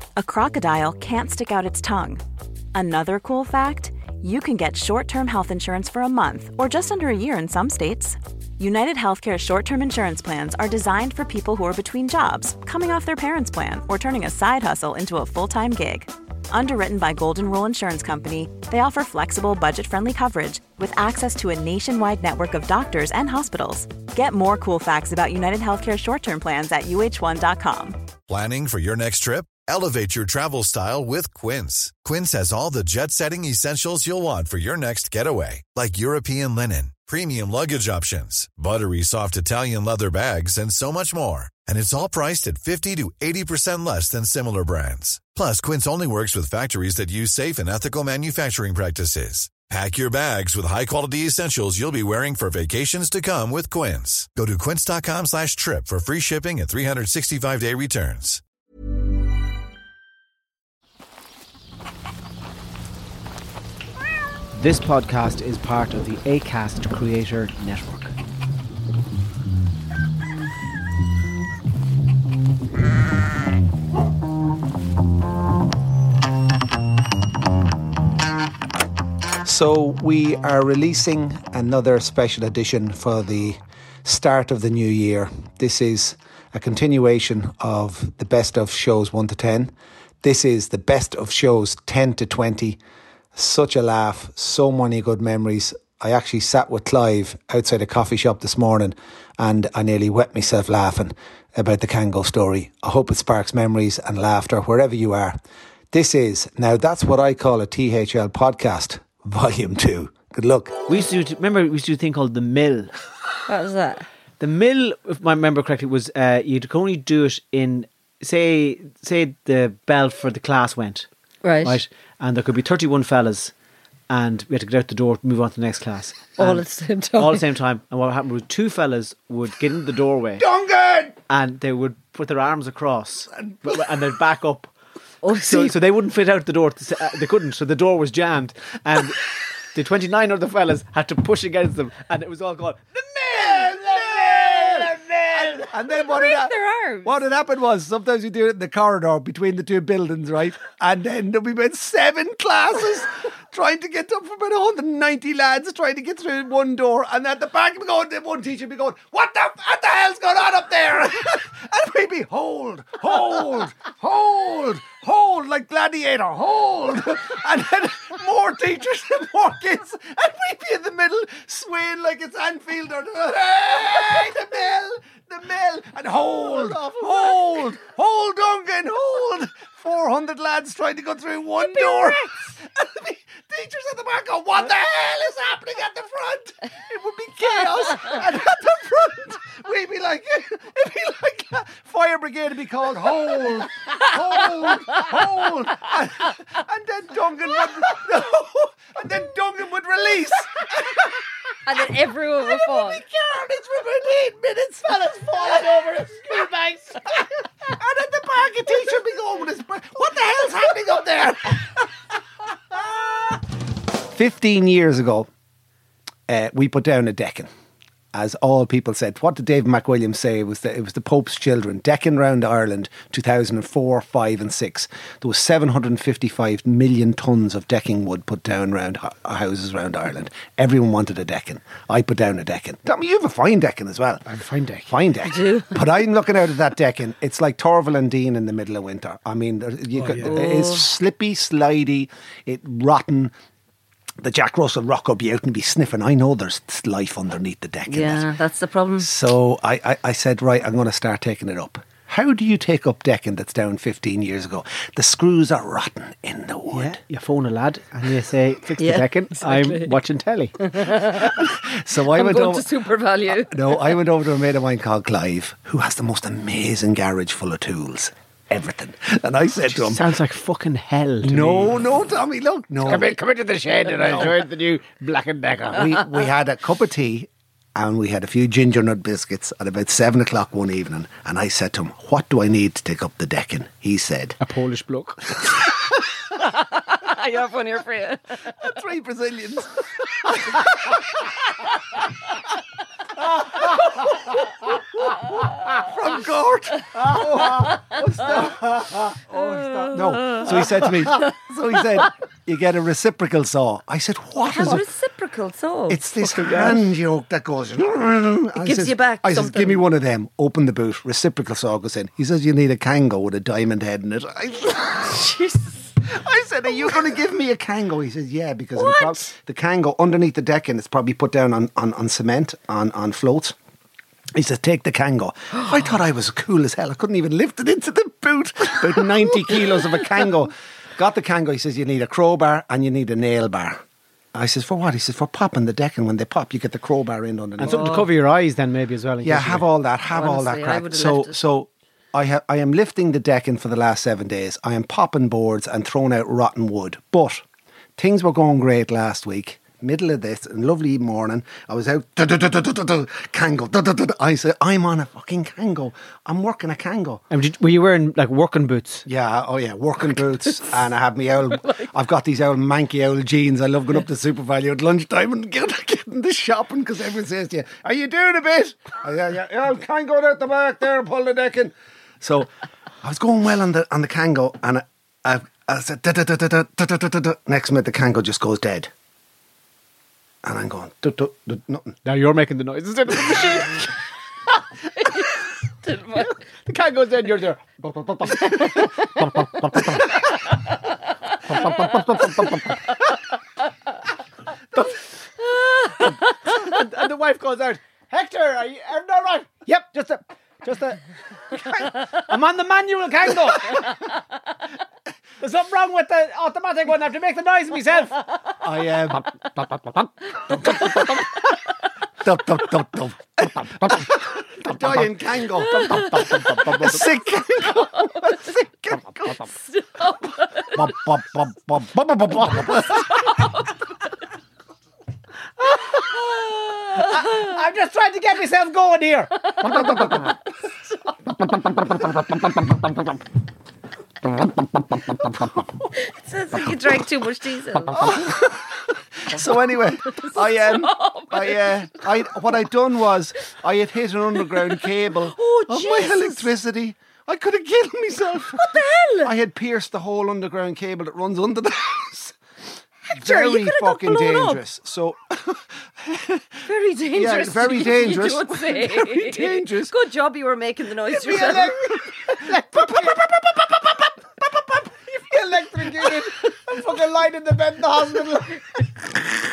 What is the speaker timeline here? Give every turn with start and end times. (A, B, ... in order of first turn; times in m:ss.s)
0:00.2-0:02.2 A
0:02.7-0:28.0 A
0:28.3-0:58.4 B
1:04.5-1:08.2 C
1:19.4-1:32.8 D
1:33.4-1:45.4 D
1:45.9-1:50.9 D
1:50.9-1:52.9 C
1:53.5-1:54.1 E
1:54.4-2:01.1 C
2:01.4-2:01.8 E
2:01.6-2:03.5 C
2:04.1-2:06.6 C
2:06.4-2:07.4 E
2:07.2-2:10.5 C
2:10.4-2:11.2 D
2:11.3-2:14.7 C
2:13.4-2:13.7 D
2:15.2-2:15.7 E
2:15.4-2:25.7 C
2:23.3-2:24.7 D
2:23.8-2:24.9 E
2:25.6-3:26.4 D
2:25.7-2:27.2 E
2:56.5-2:57.1 C
3:01.6-3:02.4 E
3:21.7-3:23.0 E
3:24.9-3:27.1 C
3:27.0-3:31.9 D
3:32.7-3:33.4 D
3:34.1-3:35.3 D
3:36.3-3:37.5 D
3:38.1-3:54.2 D
3:54.3-3:54.9 C
3:54.9-4:03.3 D
3:55.2-3:55.8 E
3:59.9-4:00.5 C
4:00.2-4:00.8 E
4:04.2-4:08.3 D
4:07.9-4:09.1 E
4:09.0-4:17.0 D
4:16.7-4:20.6 C
4:18.8-4:20.0 E
4:20.6-4:21.4 E
4:21.2-4:22.7 D
4:22.1-4:23.8 E
4:23.3-4:30.0 D
4:29.7-4:31.8 C
4:31.2-4:33.1 D
4:32.8-4:36.0 C
4:34.0-4:34.4 D
4:35.7-4:44.4 D
4:44.4-4:45.2 C
4:46.4-4:48.4 E
4:48.5-4:51.3 D
4:53.5-5:04.8 D
4:59.3-5:00.9 E
5:04.5-5:06.0 E
5:05.9-5:15.3 D
5:06.2-5:06.9 C
5:08.6-5:09.8 E
5:15.1-5:15.9 E
5:16.0-5:23.6 D
5:18.8-5:19.3 E
5:24.3-5:33.8 D
5:34.3-5:38.1 D
5:37.6-5:39.7 C
5:39.2-5:47.4 D
5:40.1-5:41.4 E
5:48.0-5:57.2 D
5:57.3-5:59.0 C
5:59.1-6:12.5 D
6:13.0-6:18.9 D
6:20.4-6:22.0 D
6:22.0-6:23.9 C
6:25.0-6:26.3 E
6:26.2-6:30.0 C
6:29.8-6:30.0 D
6:31.5-6:32.6 D
6:32.2-6:32.6 C
6:35.5-6:36.0 E
6:36.0-6:41.0 C
6:41.6-6:43.9 C
6:45.4-6:48.2 C
6:48.6-6:51.4 D
6:52.2-6:59.5 D
6:55.8-6:56.8 E
6:59.4-7:00.9 E
7:00.7-7:03.3 D
7:02.8-7:03.7 E
7:05.7-7:06.0 C
7:05.8-7:07.5 E
7:07.0-7:09.3 C
7:09.6-7:10.2 E
7:09.8-7:10.1 D
7:11.6-7:12.4 D
7:15.9-7:18.3 E
7:17.9-7:32.4 D
7:20.2-7:21.7 E
7:25.3-7:26.5 E
7:28.6-7:29.3 E
7:33.1-7:34.6 E
7:33.1-7:39.9 D
7:36.7-7:41.8 E
7:41.1-7:42.5 D
7:41.1-7:44.1 C
7:44.8-7:48.6 C